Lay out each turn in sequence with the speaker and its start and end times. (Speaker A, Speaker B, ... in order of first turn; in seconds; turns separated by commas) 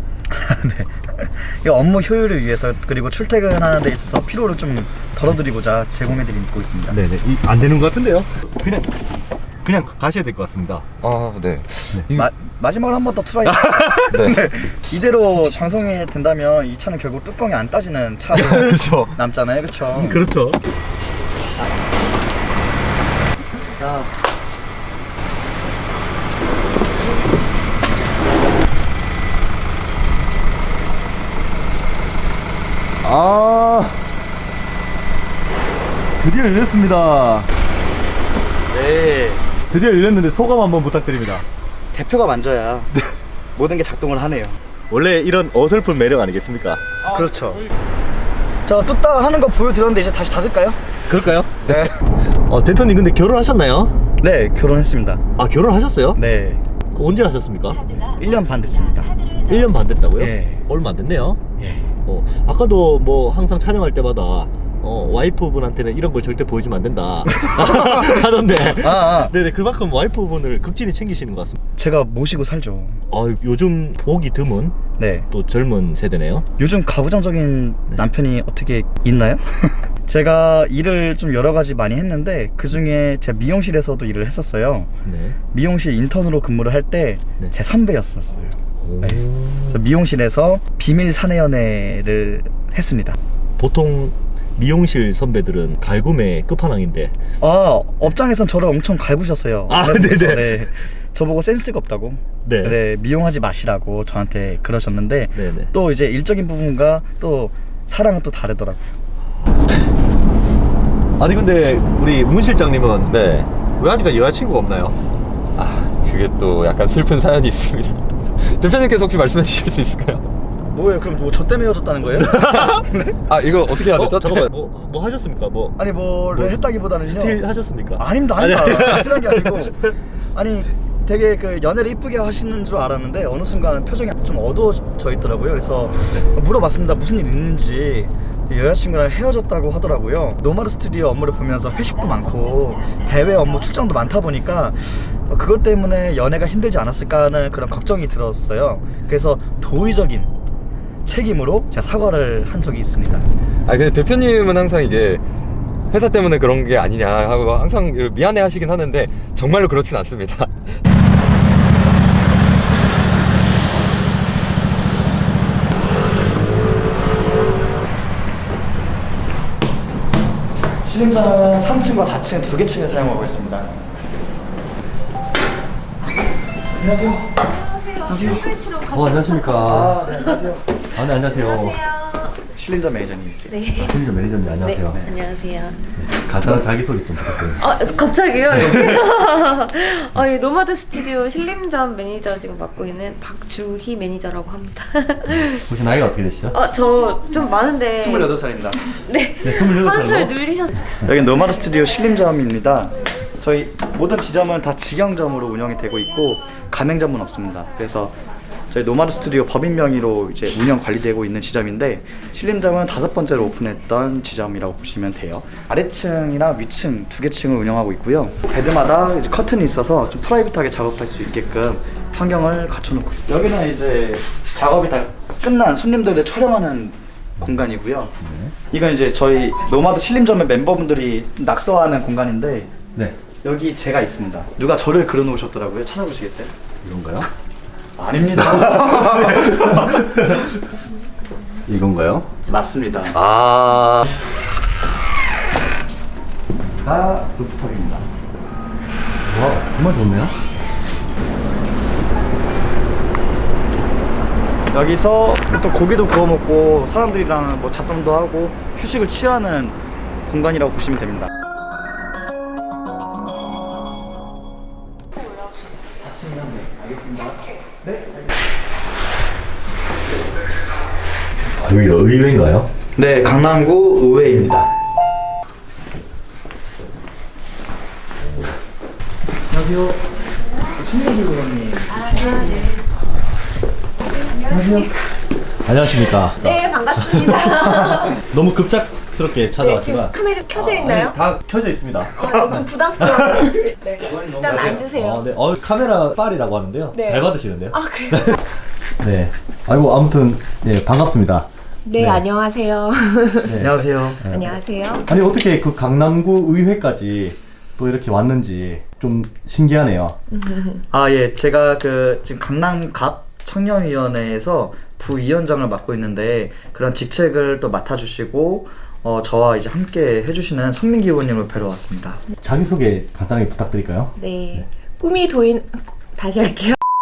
Speaker A: 0.3-7.0, Speaker B: 6.9-8.9, Speaker B: 9.6-10.9, Speaker C: 11.0-12.3, Speaker A: 12.1-20.2, Speaker B: 13.4-14.2, Speaker C: 14.1-14.4, Speaker B: 18.3-18.9, Speaker C: 18.5-19.1, Speaker B: 19.9-20.6, Speaker A: 23.6-24.1, Speaker B: 33.0-34.0, Speaker B: 36.2-37.5, Speaker A: 38.7-39.4, Speaker B: 39.7-41.5, Speaker A: 41.9-42.9, Speaker A: 43.5-44.6, Speaker B: 44.9-46.8, Speaker A: 47.1-47.7, Speaker A: 48.6-50.8, Speaker B: 51.1-51.8, Speaker B: 52.5-54.0, Speaker A: 54.2-55.2, Speaker B: 55.4-56.2, Speaker A: 56.1-56.6, Speaker B: 56.9-57.8, Speaker A: 58.2-59.1, Speaker B: 59.4-61.4, Speaker A: 60.2-60.6, Speaker A: 61.6-61.9, Speaker B: 62.0-71.6, Speaker A: 68.8-69.3, Speaker A: 71.8-73.0, Speaker B: 73.1-74.8, Speaker A: 75.0-75.3, Speaker B: 75.3-76.5, Speaker A: 76.6-84.9, Speaker B: 85.0-85.4, Speaker A: 85.5-93.2, Speaker B: 88.8-89.8, Speaker B: 93.6-97.2, Speaker A: 97.4-108.8, Speaker B: 99.7-100.7, Speaker B: 102.4-102.8, Speaker B: 105.3-105.7, Speaker B: 111.2-113.2, Speaker C: 113.1-113.5, Speaker B: 113.7-115.0, Speaker C: 115.5-120.3, Speaker A: 120.7-123.2, Speaker B: 122.2-122.8, Speaker C: 123.3-124.5, Speaker B: 123.8-129.9, Speaker A: 125.8-127.4, Speaker A: 128.0-150.3, Speaker A: 151.1-153.2, Speaker C: 153.7-155.2, Speaker C: 155.9-160.6, Speaker A: 170.8-173.7, Speaker A: 176.8-177.3, Speaker D: 177.8-180.3, Speaker A: 178.1-178.5, Speaker B: 178.9-180.0, Speaker A: 179.7-180.6, Speaker B: 180.9-181.8, Speaker D: 181.4-182.3, Speaker A: 182.5-183.6, Speaker D: 183.5-184.0, Speaker B: 183.8-185.0, Speaker D: 184.6-185.8, Speaker B: 186.0-187.7, Speaker D: 187.6-195.6, Speaker B: 188.5-189.0, Speaker B: 195.3-196.6, Speaker D: 196.5-198.3, Speaker A: 198.0-198.8, Speaker D: 199.1-201.1, Speaker B: 199.4-201.1, Speaker A: 201.0-208.1, Speaker A: 208.7-228.1, Speaker B: 228.2-228.5, Speaker A: 228.7-232.7, Speaker A: 233.4-236.5, Speaker B: 236.8-237.3, Speaker A: 238.0-240.1, Speaker B: 238.3-240.5, Speaker B: 241.7-242.3, Speaker A: 242.5-243.2, Speaker B: 243.1-244.1, Speaker A: 246.8-248.0, Speaker B: 249.2-250.3, Speaker A: 254.7-261.3, Speaker A: 266.0-268.3, Speaker B: 271.5-272.7, Speaker A: 272.9-274.7, Speaker B: 278.2-278.5, Speaker A: 279.5-280.1, Speaker A: 280.7-282.7, Speaker E: 282.3-282.6, Speaker E: 284.1-284.9, Speaker A: 284.5-284.9, Speaker B: 285.6-293.6, Speaker E: 286.4-288.1, Speaker E: 289.6-291.2, Speaker E: 292.1-295.2, Speaker A: 294.0-294.8, Speaker B: 294.4-298.4, Speaker E: 296.9-298.4, Speaker B: 299.0-302.2, Speaker E: 301.9-303.6, Speaker B: 303.4-310.2, Speaker A: 303.6-304.2, Speaker E: 304.2-305.1, Speaker E: 310.3-310.8, Speaker A: 310.9-322.2, Speaker B: 322.4-324.6, Speaker E: 324.1-326.8